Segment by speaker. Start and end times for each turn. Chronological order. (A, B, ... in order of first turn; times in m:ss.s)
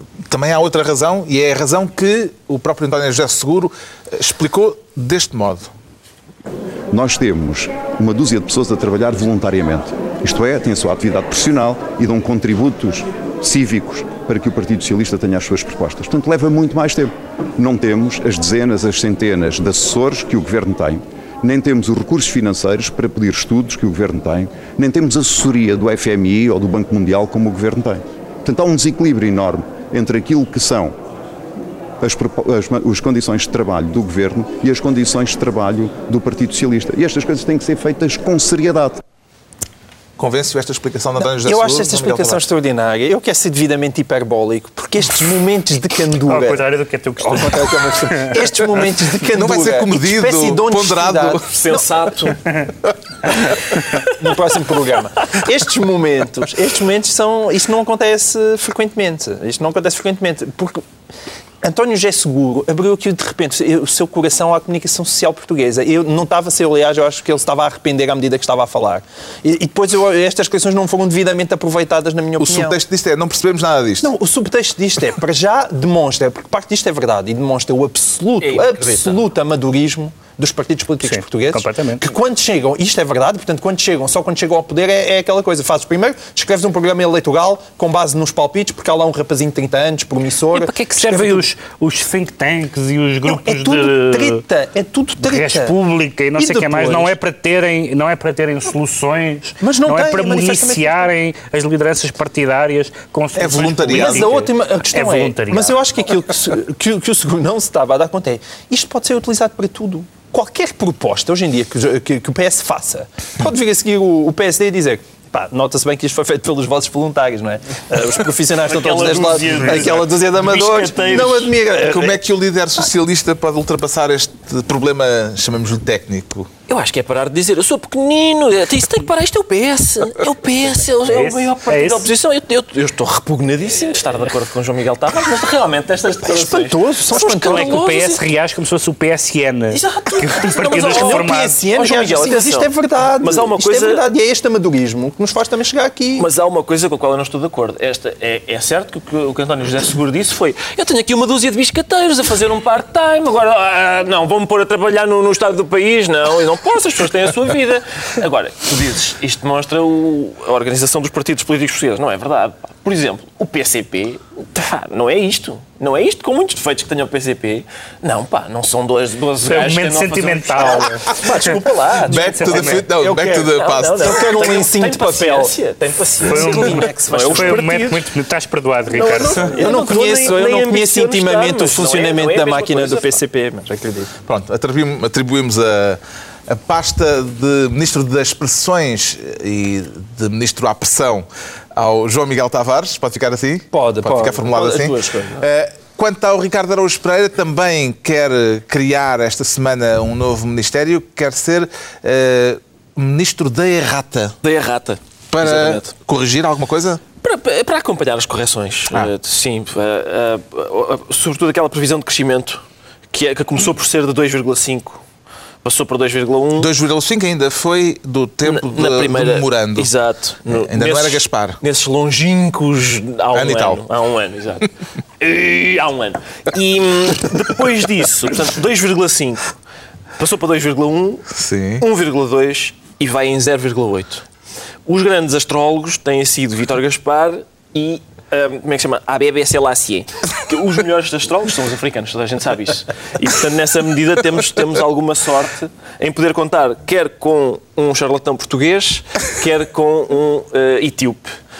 0:00.3-0:05.7 A
0:06.9-0:30.9 B
0:32.0-0:39.0 B
0:40.2-0:42.4 A
0:41.2-0:46.6 C
0:46.3-0:48.4 D
0:47.2-0:51.8 C
0:49.3-0:51.5 A
0:51.5-0:52.4 E
0:53.5-1:00.8 C
1:01.6-1:12.7 C
1:12.4-1:14.1 A
1:14.0-1:31.4 C
1:18.4-1:19.2 E
1:21.0-1:22.0 D
1:30.5-1:34.4 D
1:33.2-1:35.8 C
1:35.2-1:45.8 D
1:36.4-1:37.1 C
1:39.6-1:41.1 C
1:43.4-1:44.4 A
1:43.9-2:02.2 C
1:58.6-2:01.5 E
2:01.8-2:06.5 A
2:06.7-2:18.2 E
2:11.0-2:12.1 D
2:16.2-2:17.8 C
2:17.3-2:21.6 D
2:19.7-2:24.0 E
2:20.6-2:26.3 C
2:26.2-2:52.8 E
2:49.4-2:52.9 D
2:52.0-2:54.2 A
2:52.4-2:55.5 C
2:53.5-2:58.0 E
2:56.2-2:59.6 D
2:56.3-2:57.9 C
2:59.0-3:03.2 E
2:59.0-3:04.1 C
3:04.2-3:24.3 A
3:13.7-3:15.4 C
3:24.4-3:25.9 E
3:25.3-3:27.0 A
3:27.2-3:35.0 E
3:35.6-3:36.7 E
3:36.6-3:39.9 A
3:38.4-3:49.6 E
3:40.5-3:41.6 A
3:43.3-3:43.8 A
3:50.2-3:51.3 E
3:51.3-3:51.8 A
3:51.8-3:54.2 E
3:54.8-4:11.3 E